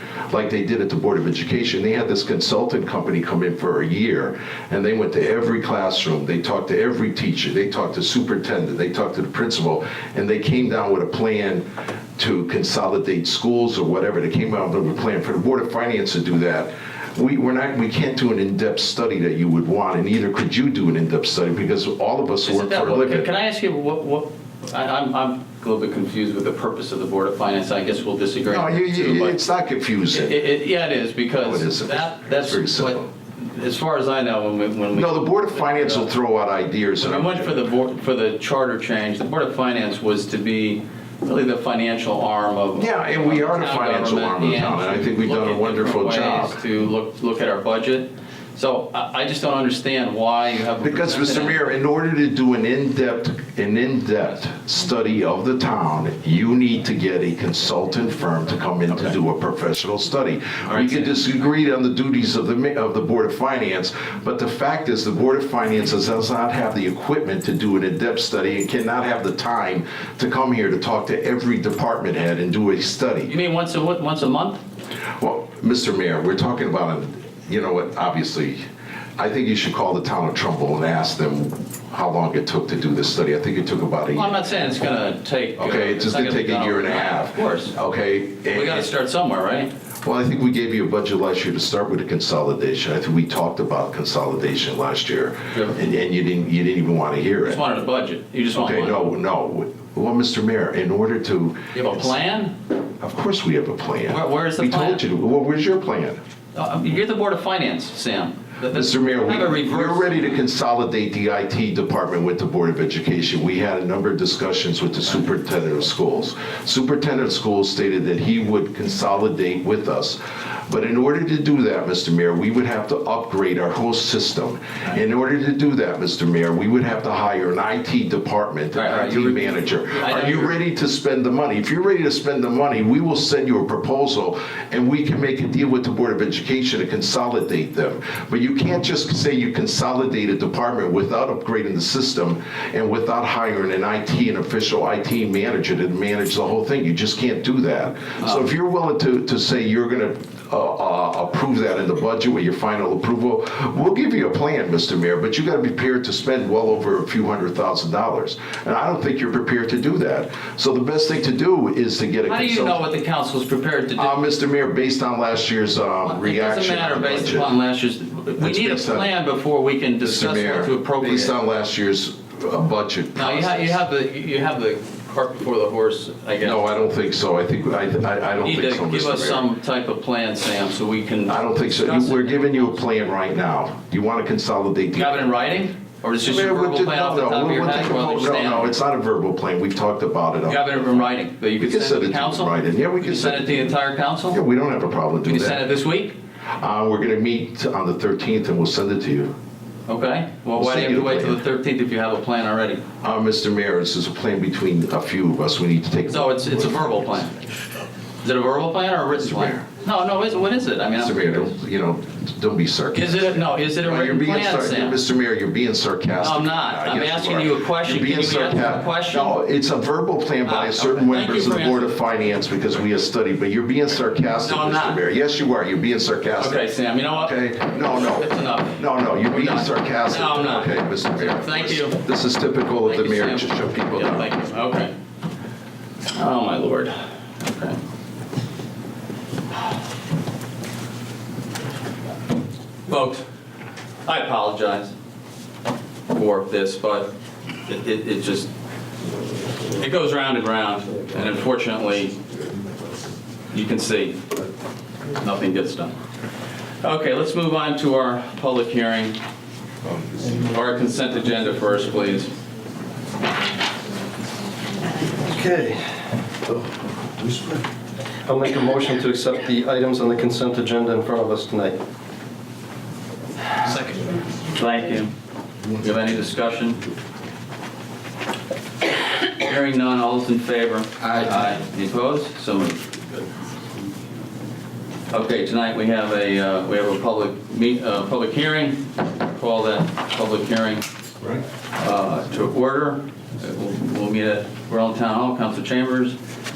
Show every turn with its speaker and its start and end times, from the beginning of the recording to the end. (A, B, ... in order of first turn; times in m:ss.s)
0:00.3-0:11.7 A
0:12.2-0:23.3 A
0:22.4-0:29.4 B
0:28.4-0:30.4 A
0:30.1-0:36.1 B
0:31.3-0:33.1 A
0:34.9-0:37.5 A
0:37.0-0:51.6 B
0:42.7-0:46.6 A
0:50.8-1:13.3 A
1:00.6-1:01.2 B
1:13.2-1:14.6 B
1:15.2-1:18.6 A
1:19.2-1:24.4 A
1:24.1-1:27.8 B
1:25.6-1:28.9 A
1:28.5-1:29.7 B
1:30.0-1:37.6 A
1:35.5-1:35.8 B
1:37.4-1:39.0 B
1:38.5-1:42.2 A
1:41.7-1:42.6 B
1:43.0-1:46.2 A
1:44.1-1:45.0 B
1:46.6-1:50.4 B
1:48.7-2:42.8 A
2:08.7-2:10.5 B
2:42.2-2:44.1 B
2:44.0-2:47.5 A
2:46.0-2:51.4 B
2:48.4-2:49.1 A
2:50.0-2:53.8 A
2:53.1-2:56.6 B
2:56.4-2:59.5 A
2:58.4-3:02.9 B
3:01.2-3:05.4 A
3:04.9-3:08.8 B
3:06.2-3:13.7 A
3:10.4-3:14.4 B
3:14.3-3:15.6 A
3:15.2-3:16.2 B
3:16.6-3:19.3 A
3:19.9-3:22.8 B
3:20.6-3:21.4 A
3:23.0-3:26.8 A
3:26.1-3:27.4 B
3:28.2-3:31.5 B
3:29.2-3:29.7 A
3:30.9-3:54.3 A
3:32.9-3:35.0 B
3:36.2-3:39.4 B
3:40.4-3:42.0 B
3:44.4-3:45.0 B
3:46.4-3:52.0 B
3:52.8-3:54.9 B
3:56.1-3:57.8 B
4:02.9-4:03.2 B
4:04.0-4:04.9 B
4:06.1-4:07.1 B
4:07.7-4:08.5 B
4:09.7-4:12.2 B
4:13.5-4:14.2 B
4:15.2-4:16.0 B
4:16.8-4:19.2 B
4:20.4-4:22.3 B
4:25.2-4:25.8 C
4:28.2-4:31.8 C
4:33.6-4:35.1 B
4:35.7-4:36.8 B
4:39.3-4:42.8 B
4:45.1-4:50.8 B
4:51.8-4:56.2 B